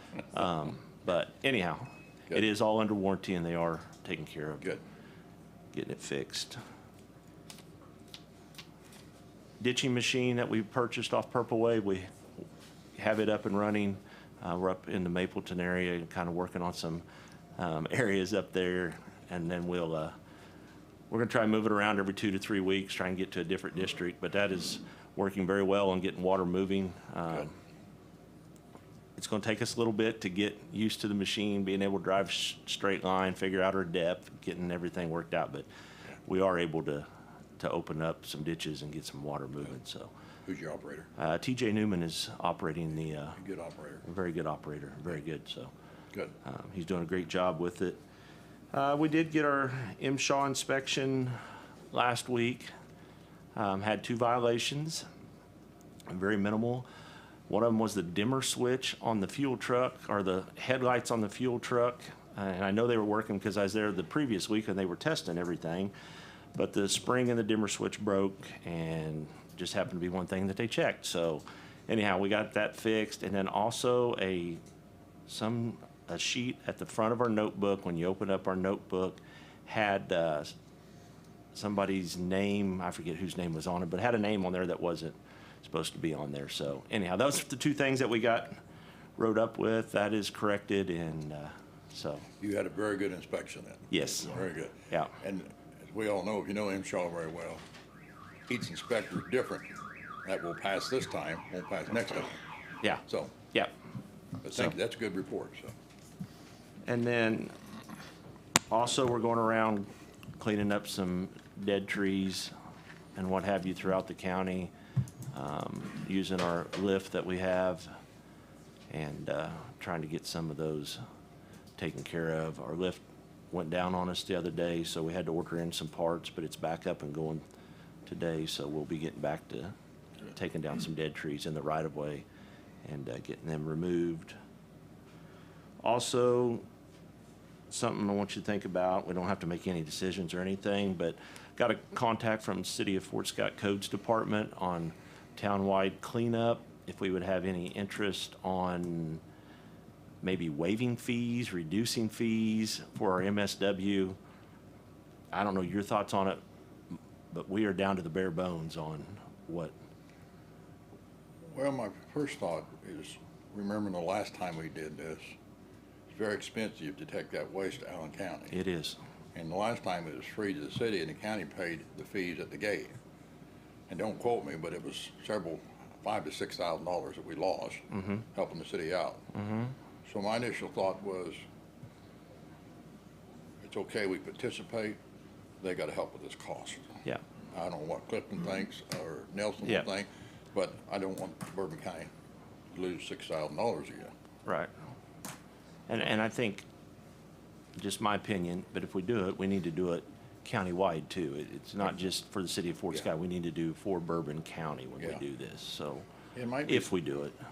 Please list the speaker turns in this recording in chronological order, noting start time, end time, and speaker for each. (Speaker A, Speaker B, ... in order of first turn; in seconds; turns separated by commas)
Speaker A: 0.3-4.8, Speaker A: 5.7-6.6, Speaker A: 9.6-12.1, Speaker A: 12.9-17.0, Speaker A: 17.6-20.1, Speaker A: 21.1-27.6, Speaker A: 29.2-35.7, Speaker A: 36.2-37.0, Speaker A: 37.6-40.1, Speaker B: 40.5-41.1, Speaker A: 41.2-43.4, Speaker B: 43.4-44.0, Speaker A: 44.0-45.7, Speaker A: 46.4-48.0, Speaker A: 48.7-51.4, Speaker A: 51.9-52.7, Speaker A: 53.5-55.0, Speaker A: 56.1-56.9, Speaker A: 57.5-65.9, Speaker A: 66.5-74.6, Speaker A: 75.3-80.5, Speaker A: 81.5-88.5, Speaker A: 89.2-92.3, Speaker B: 92.4-97.6, Speaker A: 93.9-94.4, Speaker B: 98.5-99.7, Speaker B: 100.2-102.4, Speaker A: 102.8-103.7, Speaker B: 103.1-103.3, Speaker B: 104.4-105.7, Speaker A: 106.8-107.5, Speaker A: 108.7-112.5, Speaker A: 113.2-114.7, Speaker A: 115.3-117.9, Speaker A: 118.9-121.0, Speaker A: 121.8-127.4, Speaker A: 128.1-129.7, Speaker A: 130.3-132.2, Speaker A: 132.8-134.3, Speaker A: 135.8-136.6, Speaker A: 137.7-149.2, Speaker A: 150.2-154.2, Speaker A: 155.3-156.4, Speaker A: 157.3-159.7, Speaker B: 161.5-165.3, Speaker B: 166.1-168.5, Speaker A: 168.5-169.0, Speaker B: 169.3-172.9, Speaker B: 173.9-179.2, Speaker B: 180.0-181.4, Speaker B: 183.6-185.0, Speaker B: 185.6-186.9, Speaker B: 187.5-192.1, Speaker B: 192.7-194.1, Speaker A: 194.4-194.7, Speaker A: 195.9-196.6, Speaker A: 197.8-206.1, Speaker B: 206.3-206.9, Speaker A: 206.7-207.3